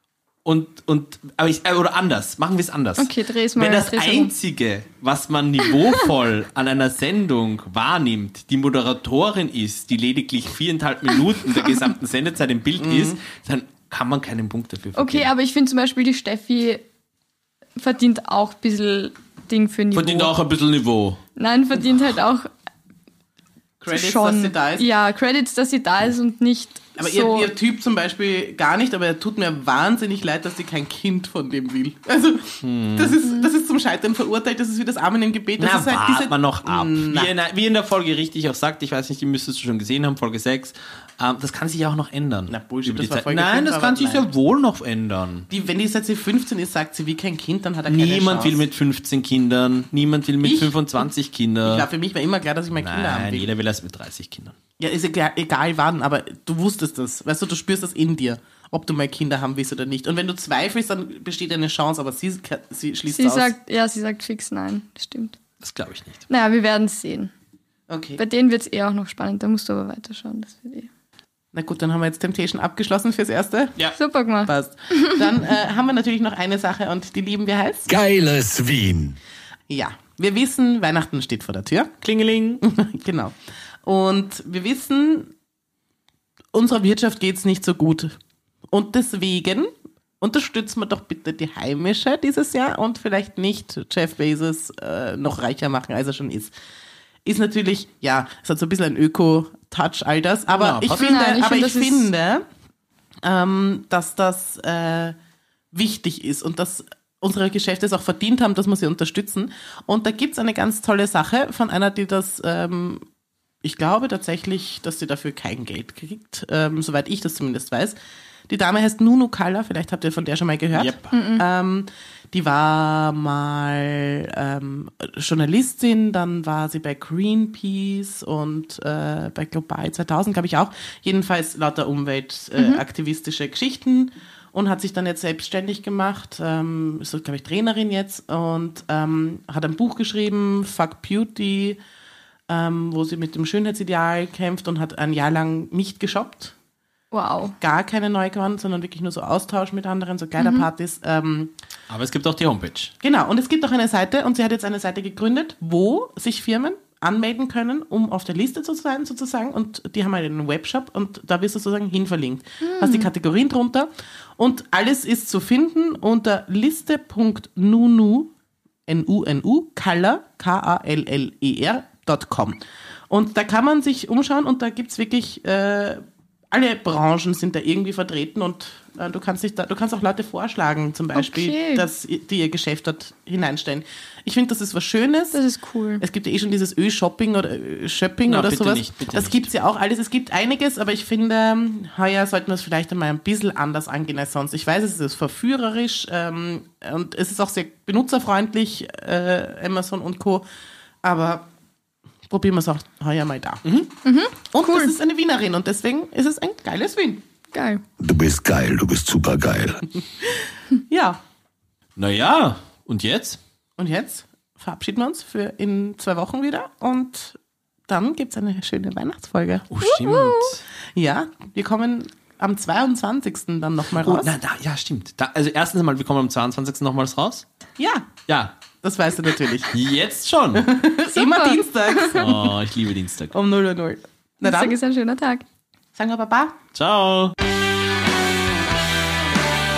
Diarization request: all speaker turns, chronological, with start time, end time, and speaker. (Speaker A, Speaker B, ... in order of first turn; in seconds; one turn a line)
Speaker A: 0.4-15.3
Speaker B: 3.0-4.3
Speaker C: 12.8-13.2
Speaker B: 14.9-16.8
Speaker B: 17.8-20.3
Speaker A: 19.9-21.2
Speaker B: 21.4-22.5
Speaker C: 23.8-24.9
Speaker B: 23.9-27.5
Speaker C: 27.0-37.3
Speaker A: 32.6-33.2
Speaker A: 35.6-45.5
Speaker C: 42.5-44.3
Speaker C: 45.5-48.6
Speaker A: 47.9-51.9
Speaker C: 50.4-50.8
Speaker C: 51.6-53.5
Speaker A: 52.8-54.5
Speaker C: 54.8-63.5
Speaker B: 63.1-65.4
Speaker A: 65.6-66.2
Speaker B: 66.3-67.3
Speaker C: 67.9-68.2
Speaker B: 68.2-70.9
Speaker C: 71.5-73.8
Speaker B: 74.0-75.3
Speaker C: 74.5-77.9
Speaker D: 77.9-79.2
Speaker C: 79.7-81.9
Speaker A: 82.0-82.6
Speaker C: 82.6-85.3
Speaker C: 86.5-88.2
Speaker C: 88.7-96.5
Speaker C: 97.2-102.4
Speaker A: 100.5-101.1
Speaker B: 100.9-102.1
Speaker C: 103.2-105.2
Speaker C: 105.7-113.0
Speaker C: 113.6-118.0
Speaker C: 118.5-141.8
Speaker A: 120.7-121.1
Speaker B: 121.1-121.4
Speaker B: 132.6-132.8
Speaker C: 142.5-146.5
Speaker B: 147.1-147.5
Speaker C: 147.6-151.5
Speaker B: 150.4-150.6
Speaker A: 151.9-152.9
Speaker C: 153.0-168.3
Speaker B: 162.6-163.1
Speaker C: 168.9-185.4
Speaker B: 181.1-181.8
Speaker B: 185.3-186.0
Speaker C: 186.0-200.4
Speaker A: 188.2-189.4
Speaker C: 201.0-201.5
Speaker C: 202.3-203.7
Speaker A: 203.6-203.9
Speaker B: 204.0-204.9
Speaker C: 204.5-207.2
Speaker B: 207.5-207.8
Speaker D: 208.0-210.0
Speaker C: 210.8-211.2
Speaker A: 211.9-213.4
Speaker C: 213.8-219.7
Speaker A: 219.7-220.6
Speaker B: 219.9-220.5
Speaker C: 220.9-224.3
Speaker A: 223.9-227.4
Speaker C: 227.8-228.1
Speaker A: 228.3-228.6
Speaker C: 228.8-229.7
Speaker A: 229.7-230.7
Speaker C: 230.6-232.6
Speaker B: 231.1-232.2
Speaker A: 232.1-233.3
Speaker C: 233.3-234.8
Speaker B: 234.4-235.4
Speaker C: 235.9-236.6
Speaker A: 236.7-237.3